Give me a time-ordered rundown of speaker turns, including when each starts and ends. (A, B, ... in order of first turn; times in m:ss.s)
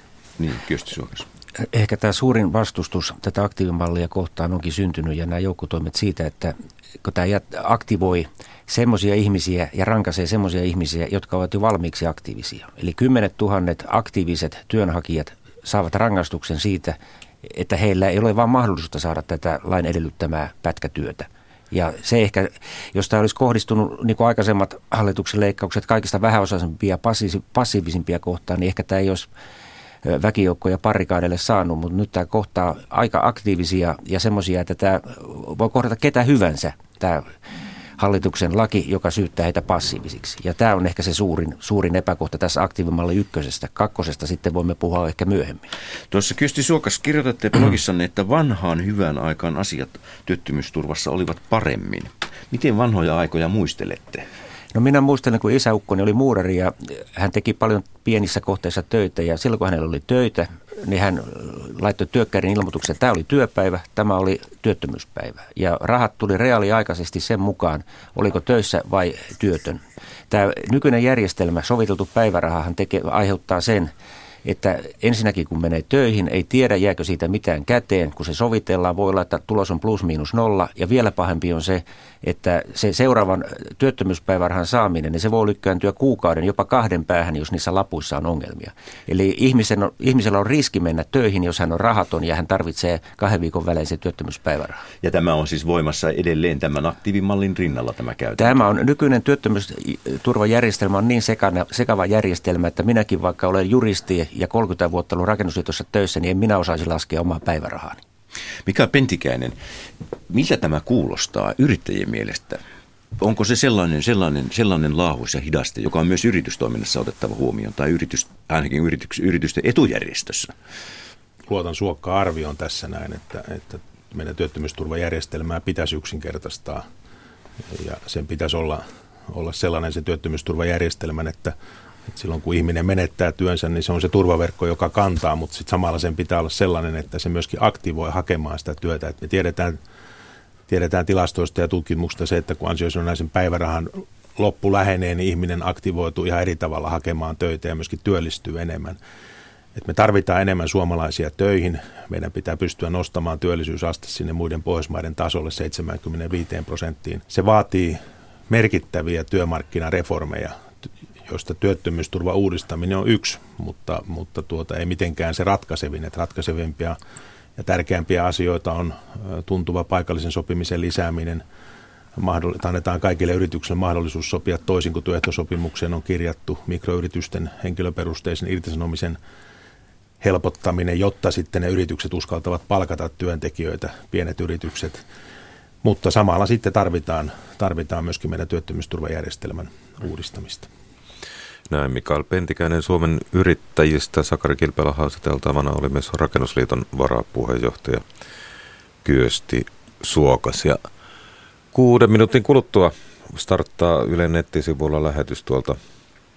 0:00.4-0:01.2 A
0:01.6-0:29.3 B
0:30.0-0:37.3 B
0:38.0-0:45.6 B
0:46.1-0:54.2 A
0:54.7-1:13.9 B
1:14.4-1:34.8 B
1:35.0-1:38.6 A
1:38.4-1:48.0 B
1:48.6-1:49.6 A
1:50.3-1:52.6 A
1:53.2-2:00.5 A
2:01.5-2:06.9 C
2:07.7-2:11.6 C
2:12.1-2:19.8 C
2:20.7-2:29.0 C
2:29.8-2:40.6 C
2:41.3-2:47.0 C
2:47.6-2:51.4 C
2:52.2-2:59.2 C
3:00.2-3:05.0 C
3:05.8-3:10.7 C
3:11.7-3:18.0 D
3:19.0-3:20.8 D
3:21.7-3:25.8 D